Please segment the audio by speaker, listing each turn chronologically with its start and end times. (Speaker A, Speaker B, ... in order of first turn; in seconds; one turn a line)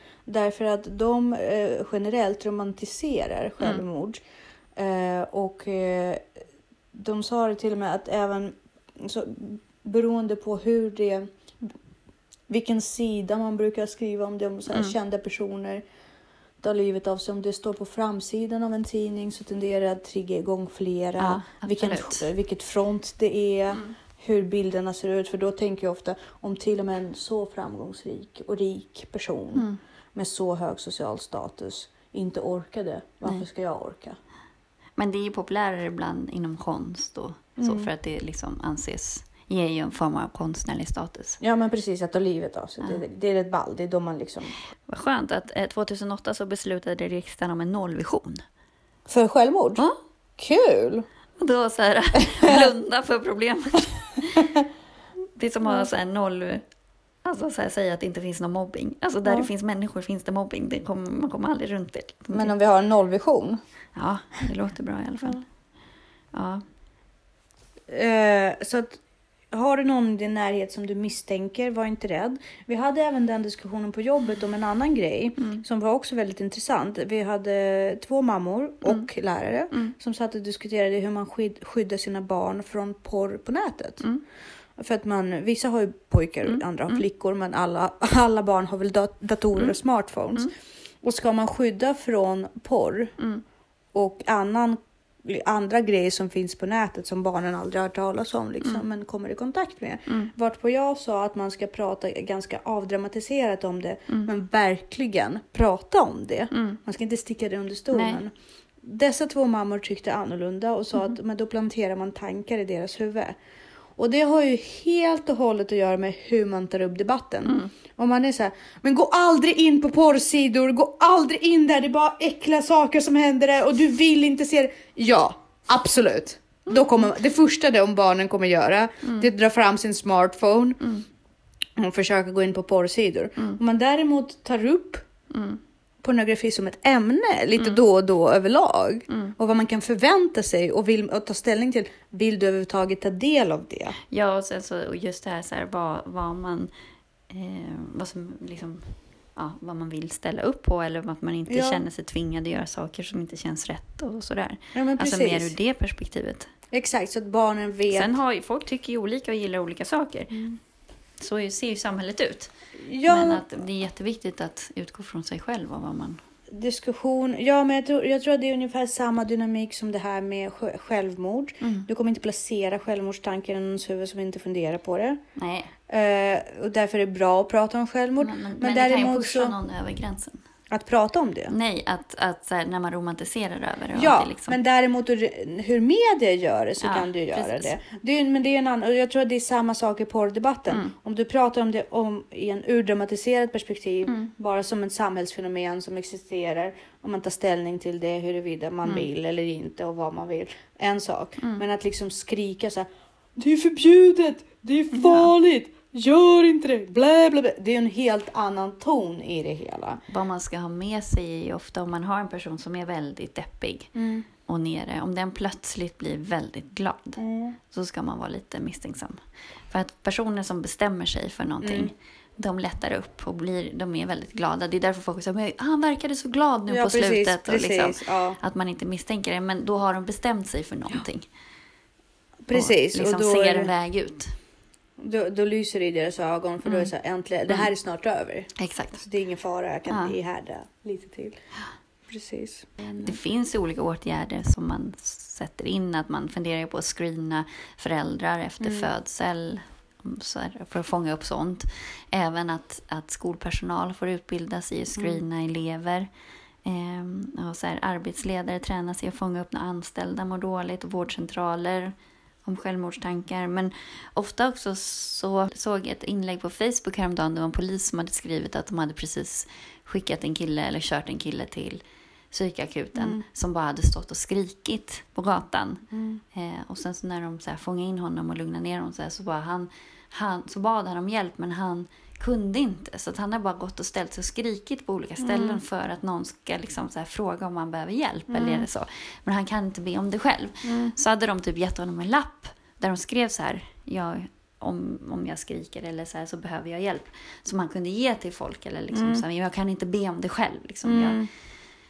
Speaker A: 0.3-4.2
Speaker A: 4.8-6.3
Speaker A: 6.9-11.3
Speaker A: 12.5-15.8
Speaker A: 16.6-34.2
Speaker B: 21.2-22.3
Speaker B: 29.5-29.8
Speaker B: 35.0-41.4
Speaker A: 37.6-37.9
Speaker A: 41.4-44.5
Speaker B: 44.9-48.4
Speaker A: 49.1-49.8
Speaker A: 50.4-51.1
Speaker B: 51.4-54.5
Speaker A: 52.3-52.7
Speaker B: 55.4-56.6
Speaker B: 57.2-62.5
Speaker A: 62.3-63.6
Speaker B: 64.0-65.4
Speaker B: 66.3-66.6
Speaker A: 67.9-69.0
Speaker A: 69.5-84.0
Speaker A: 84.8-93.1
Speaker B: 86.5-87.0
Speaker A: 93.9-113.3
Speaker B: 100.1-100.3
Speaker B: 106.5-106.8
Speaker B: 107.9-108.2
Speaker A: 114.0-130.8
Speaker B: 117.5-117.7
Speaker B: 129.0-129.3
Speaker A: 131.8-135.1
Speaker B: 135.3-135.6
Speaker A: 136.0-144.0
Speaker B: 137.6-137.8
Speaker B: 144.1-146.7
Speaker B: 147.3-156.5
Speaker A: 151.5-151.8
Speaker A: 154.7-155.5
Speaker A: 156.7-158.2
Speaker B: 157.9-160.4
Speaker A: 160.3-160.6
Speaker B: 161.2-162.5
Speaker A: 162.8-163.4
Speaker B: 163.1-166.2
Speaker A: 166.5-175.2
Speaker B: 171.6-171.9
Speaker B: 175.4-175.7
Speaker A: 175.9-179.5
Speaker B: 178.2-180.4
Speaker A: 180.7-181.5
Speaker B: 181.5-184.6
Speaker A: 184.0-210.0
Speaker B: 186.8-187.7
Speaker B: 204.9-205.3
Speaker B: 210.1-213.9
Speaker A: 213.9-214.3
Speaker B: 214.5-231.3
Speaker A: 217.2-217.6
Speaker A: 221.6-221.9
Speaker A: 226.7-228.4
Speaker A: 232.5-233.7
Speaker B: 232.5-234.4
Speaker A: 235.0-241.4
Speaker B: 236.6-236.9
Speaker B: 238.6-239.0
Speaker B: 239.9-240.2
Speaker A: 242.1-243.1
Speaker B: 242.8-256.1
Speaker A: 248.6-248.9
Speaker A: 255.0-255.2
Speaker B: 256.6-301.2
Speaker A: 273.0-273.2
Speaker A: 275.9-276.2
Speaker A: 285.2-285.6
Speaker A: 288.3-288.7
Speaker A: 290.6-290.9
Speaker A: 298.9-299.2
Speaker A: 300.9-301.3